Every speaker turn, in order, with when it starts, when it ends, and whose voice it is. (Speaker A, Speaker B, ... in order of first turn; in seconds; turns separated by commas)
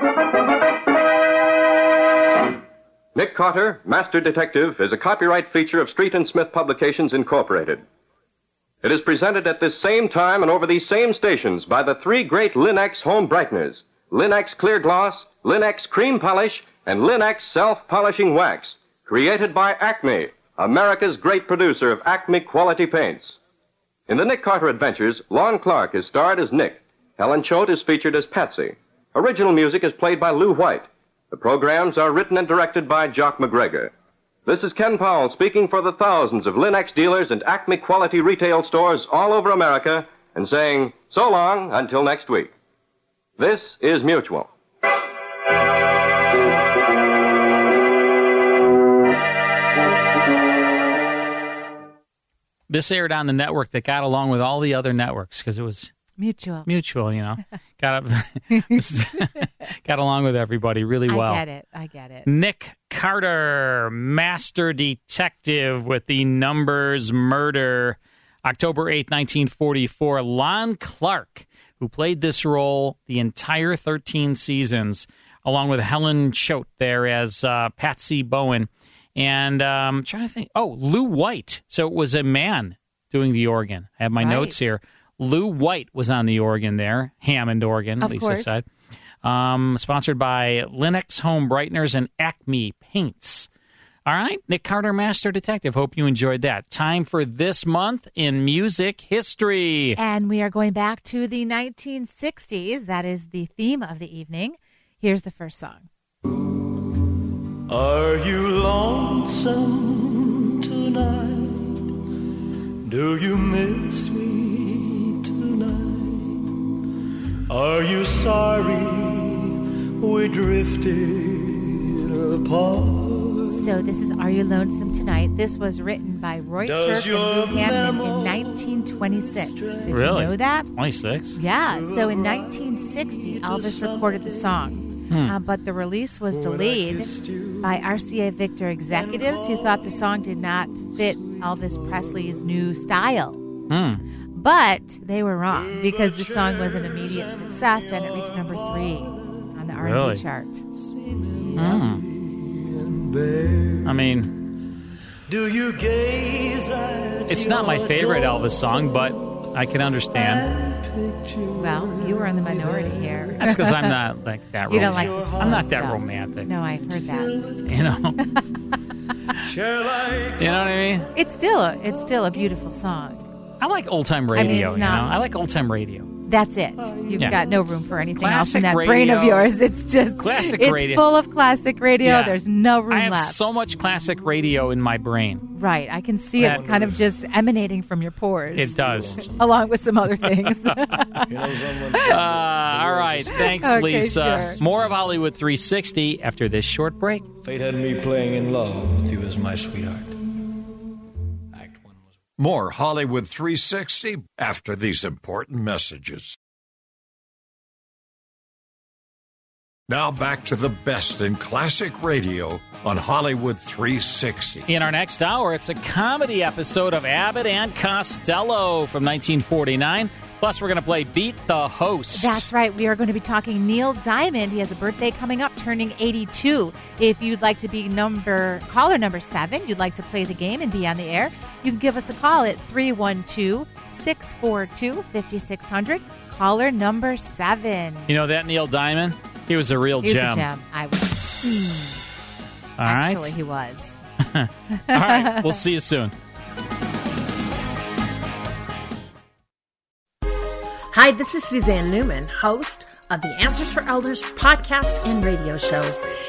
Speaker A: 3.1-7.8, Speaker A: 8.8-23.4, Speaker A: 24.1-33.9, Speaker A: 34.5-42.5, Speaker A: 43.4-44.5, Speaker B: 52.7-55.9, Speaker C: 56.2-56.7, Speaker B: 56.6-61.4, Speaker C: 61.1-62.3, Speaker B: 62.2-88.7, Speaker C: 84.2-84.6, Speaker C: 88.0-88.5, Speaker B: 89.2-93.5, Speaker B: 94.1-100.0, Speaker C: 100.0-105.9, Speaker D: 107.7-111.8, Speaker D: 112.9-116.4, Speaker D: 117.5-123.7, Speaker C: 123.5-130.7, Speaker D: 126.6-130.2, Speaker B: 129.9-131.4, Speaker C: 131.4-143.4, Speaker D: 131.6-135.0, Speaker B: 135.1-135.4, Speaker D: 136.3-137.9, Speaker D: 138.9-140.2, Speaker D: 140.8-142.7, Speaker B: 143.7-144.0, Speaker C: 144.3-150.6, Speaker D: 145.5-149.5, Speaker B: 149.8-150.2, Speaker D: 150.8-154.0, Speaker B: 151.6-152.0, Speaker B: 153.8-154.4, Speaker D: 155.3-159.5, Speaker B: 157.3-160.5, Speaker D: 160.1-163.6, Speaker C: 161.6-164.0, Speaker B: 163.4-166.5, Speaker D: 164.7-165.9, Speaker C: 164.7-167.5, Speaker D: 166.7-168.0, Speaker B: 167.6-168.2, Speaker D: 169.4-170.8, Speaker B: 170.4-171.1, Speaker C: 171.2-173.3, Speaker B: 173.6-176.1, Speaker C: 174.3-175.1, Speaker C: 176.3-183.4, Speaker D: 176.8-178.0, Speaker B: 177.2-177.4, Speaker B: 178.2-179.5, Speaker B: 180.2-181.1, Speaker B: 182.0-182.4, Speaker B: 182.9-185.5, Speaker C: 185.5-191.3, Speaker B: 186.4-186.7, Speaker D: 186.4-187.0, Speaker B: 188.6-189.2, Speaker D: 188.8-189.7, Speaker D: 191.3-193.5, Speaker B: 192.1-197.3, Speaker C: 193.5-194.6, Speaker D: 197.4-200.2, Speaker D: 201.5-202.2, Speaker E: 202.4-206.4, Speaker E: 209.9-214.7, Speaker B: 214.7-222.5, Speaker C: 222.2-238.1, Speaker B: 238.1-240.5, Speaker C: 240.0-242.0, Speaker B: 242.8-243.3, Speaker C: 242.8-244.0, Speaker B: 244.3-246.1, Speaker C: 244.8-245.5, Speaker F: 250.9-256.0